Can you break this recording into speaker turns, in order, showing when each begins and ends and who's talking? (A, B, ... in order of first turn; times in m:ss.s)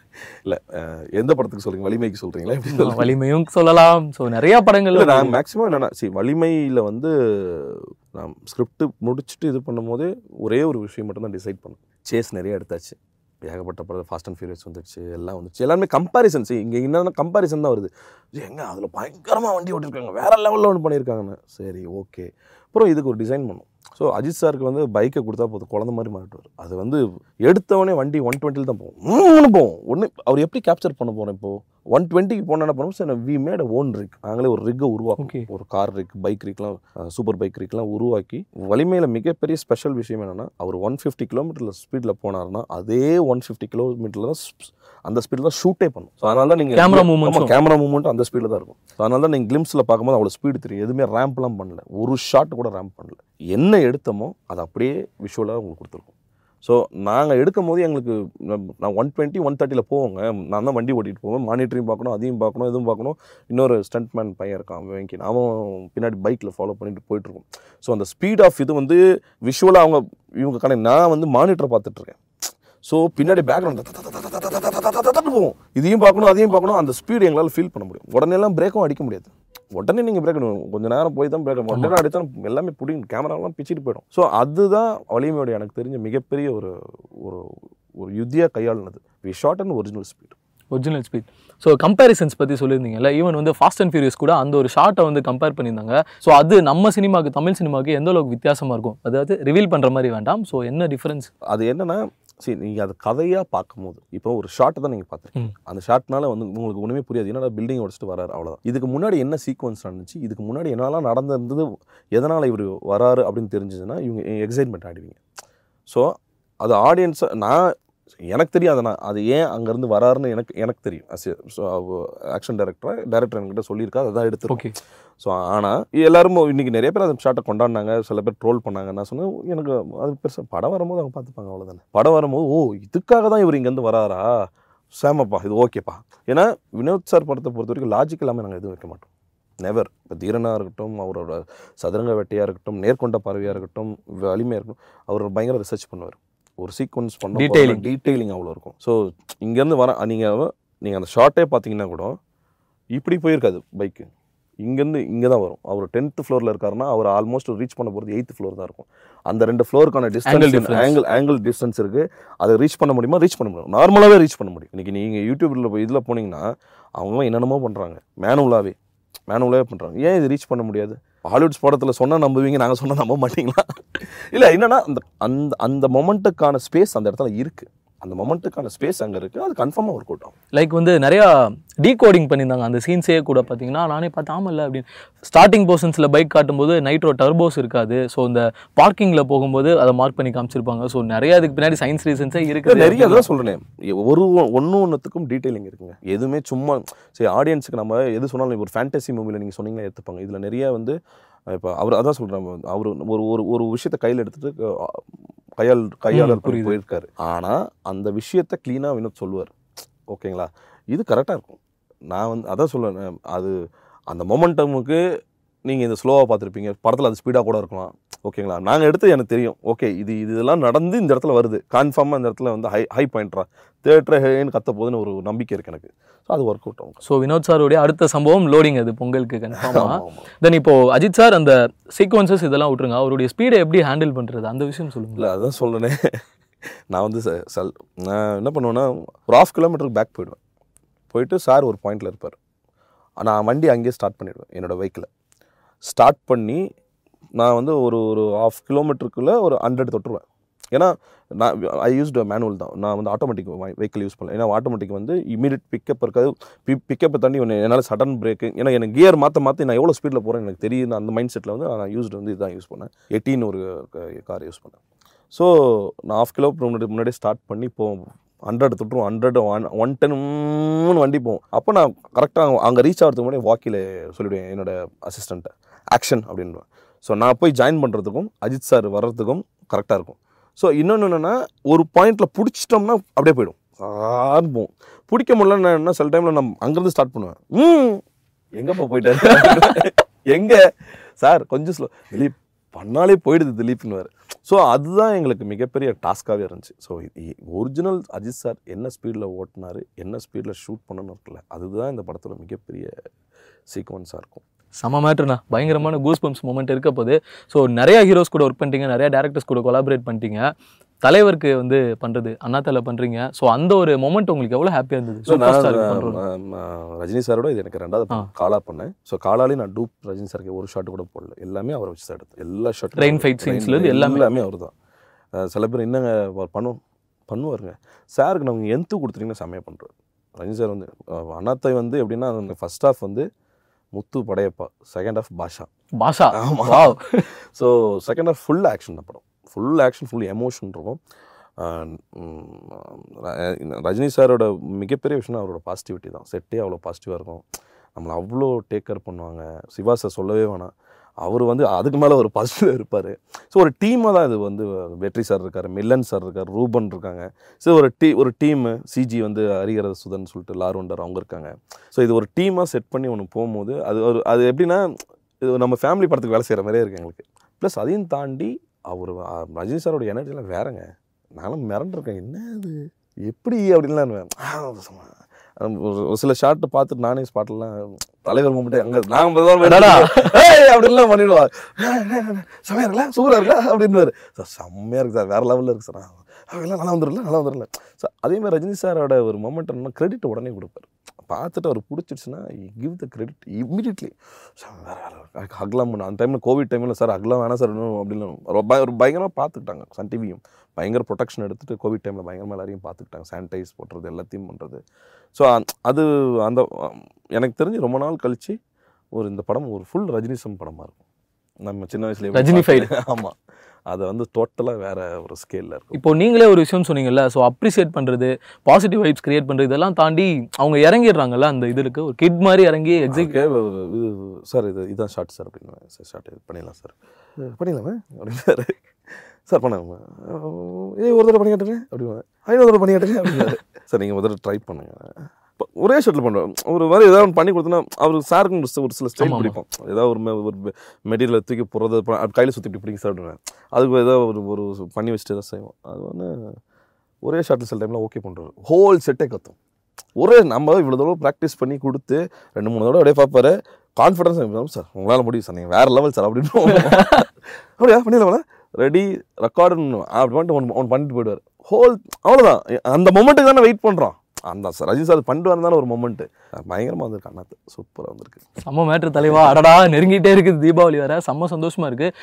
0:00.4-0:03.2 A
0:02.8-0:05.4 B
0:04.9-0:56.1 A
0:35.2-0:35.4 B
0:46.8-0:47.5 B
0:56.6-1:12.2 A
1:12.8-1:30.4 A
1:30.7-1:41.3 B
1:41.5-1:55.2 A
1:55.9-1:57.7 A
1:58.3-2:04.7 A
2:05.2-2:14.3 A
2:14.9-2:19.1 A
2:19.6-2:32.2 A
2:27.4-2:27.8 B
2:32.9-2:34.1 A
2:34.6-2:46.4 A
2:40.3-2:41.0 B
2:47.0-2:48.8 A
2:49.3-3:00.3 A
3:00.5-3:13.3 B
3:12.7-3:21.0 A
3:21.5-3:25.0 A
3:25.6-3:29.6 A
3:26.2-3:26.8 B
3:30.1-3:31.6 A
3:32.1-3:33.6 A
3:34.1-3:35.0 A
3:35.7-3:47.0 A
3:47.0-3:55.2 B
3:49.6-3:50.3 A
3:55.2-3:56.0 A
3:56.9-4:00.4 A
4:01.1-4:02.4 A
4:03.2-4:05.1 A
4:05.8-4:06.6 A
4:07.4-4:24.8 A
4:25.3-4:48.0 A
4:48.6-4:50.6 A
4:51.2-5:02.9 A
5:03.7-5:04.4 A
5:04.8-5:10.5 B
5:11.0-5:16.2 B
5:15.3-5:24.7 A
5:23.0-5:24.2 B
5:25.4-5:33.3 A
5:33.9-5:35.7 A
5:36.0-5:37.2 B
5:36.3-5:41.0 A
5:41.6-5:47.4 A
5:48.0-5:50.7 A
5:51.2-6:04.8 A
6:05.4-6:44.8 A
6:19.8-6:20.2 B
6:45.4-6:48.6 A
6:49.1-6:51.0 A
6:51.6-6:53.4 A
6:52.3-6:52.9 B
6:53.9-6:56.0 A
6:55.9-7:03.3 B
7:03.1-7:08.8 A
7:09.5-7:26.3 A
7:19.2-7:19.6 B
7:27.2-7:29.6 A
7:30.2-7:37.3 A
7:37.8-7:48.4 A
7:48.6-7:52.1 B